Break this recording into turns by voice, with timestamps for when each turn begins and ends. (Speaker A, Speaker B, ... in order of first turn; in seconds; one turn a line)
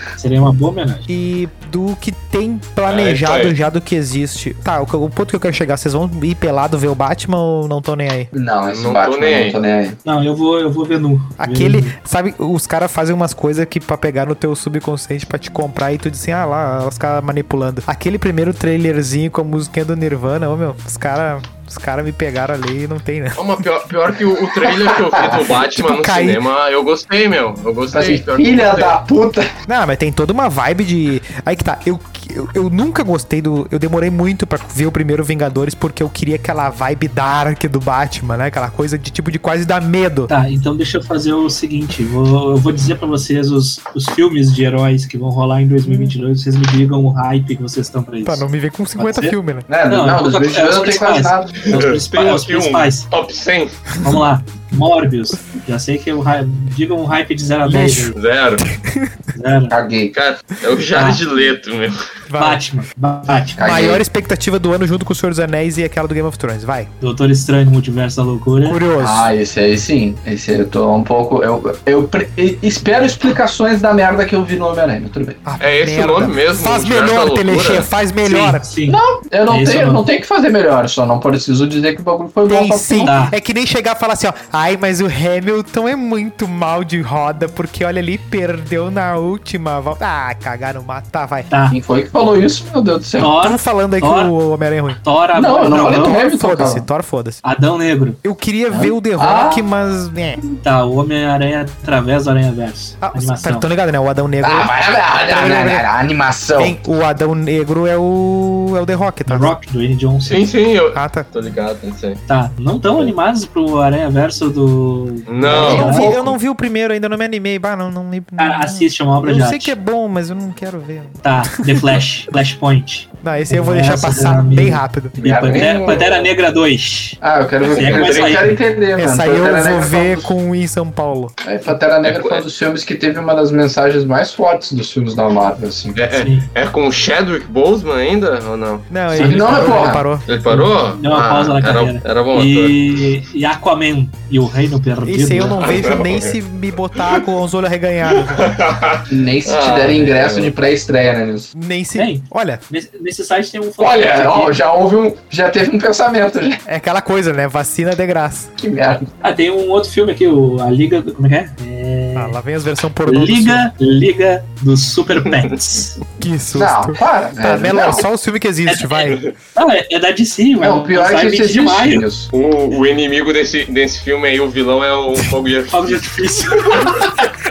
Speaker A: 0.2-1.1
Speaker B: 1.1-8.3
Speaker C: 2.9-3.5
Speaker D: 8.3-10.0
Speaker C: 8.7-9.6
Speaker A: 10.1-11.9
Speaker B: 11.4-23.7
Speaker C: 23.4-29.0
Speaker D: 24.9-25.4
Speaker B: 25.6-26.4
Speaker D: 27.9-29.5
Speaker B: 29.7-40.3
Speaker A: 40.3-49.4
Speaker B: 45.9-46.2
Speaker B: 48.2-49.7
Speaker D: 49.7-51.6
Speaker A: 49.9-53.1
Speaker C: 51.7-53.8
Speaker A: 54.0-58.2
Speaker B: 57.6-59.2
Speaker C: 58.1-58.7
Speaker A: 59.3-59.8
Speaker D: 59.7-60.1
Speaker C: 60.1-62.0
Speaker A: 60.9-61.2
Speaker B: 62.3-62.6
Speaker A: 62.4-63.6
Speaker B: 63.6-66.9
Speaker D: 63.6-64.0
Speaker A: 67.0-68.8
Speaker B: 68.7-69.3
Speaker D: 69.0-75.4
Speaker B: 75.5-78.7
Speaker C: 75.6-77.9
Speaker A: 78.2-80.1
Speaker D: 78.9-83.2
Speaker B: 82.5-91.5
Speaker A: 83.0-83.3
Speaker A: 91.5-91.8
Speaker D: 91.7-93.3
Speaker A: 93.2-94.3
Speaker B: 93.4-95.0
Speaker A: 95.0-96.2
Speaker D: 95.3-96.9
Speaker B: 95.7-97.4
Speaker A: 97.4-98.2
Speaker B: 98.2-100.4
Speaker D: 98.7-99.7
Speaker A: 100.6-103.7
Speaker B: 103.0-105.9
Speaker D: 104.4-106.8
Speaker B: 106.6-109.5
Speaker A: 109.3-110.5
Speaker C: 110.2-112.2
Speaker B: 110.9-111.3
Speaker A: 112.3-116.2
Speaker C: 115.3-116.0
Speaker D: 115.5-116.3
Speaker B: 115.5-122.0
Speaker A: 118.4-119.8
Speaker A: 121.2-128.6
Speaker B: 123.2-125.2
Speaker D: 125.2-126.1
Speaker C: 125.6-126.3
Speaker D: 127.2-130.3
Speaker C: 127.6-128.4
Speaker B: 129.0-131.4
Speaker D: 131.4-136.0
Speaker C: 132.0-132.4
Speaker C: 135.9-138.9
Speaker A: 136.2-136.5
Speaker B: 138.9-140.3
Speaker A: 139.1-139.9
Speaker D: 139.1-140.1
Speaker C: 140.2-143.1
Speaker A: 140.5-145.9
Speaker B: 145.0-148.6
Speaker C: 145.6-146.4
Speaker C: 147.0-147.2
Speaker C: 148.1-150.5
Speaker D: 149.1-151.5
Speaker B: 151.6-152.6
Speaker A: 152.0-154.6
Speaker D: 153.8-156.6
Speaker B: 156.7-158.5
Speaker D: 158.6-159.1
Speaker A: 159.2-162.3
Speaker B: 162.2-163.7
Speaker A: 163.1-166.0
Speaker B: 166.2-169.2
Speaker D: 166.6-168.1
Speaker A: 168.7-172.1
Speaker D: 170.6-172.3
Speaker C: 172.3-176.1
Speaker A: 175.7-177.2
Speaker C: 176.7-177.1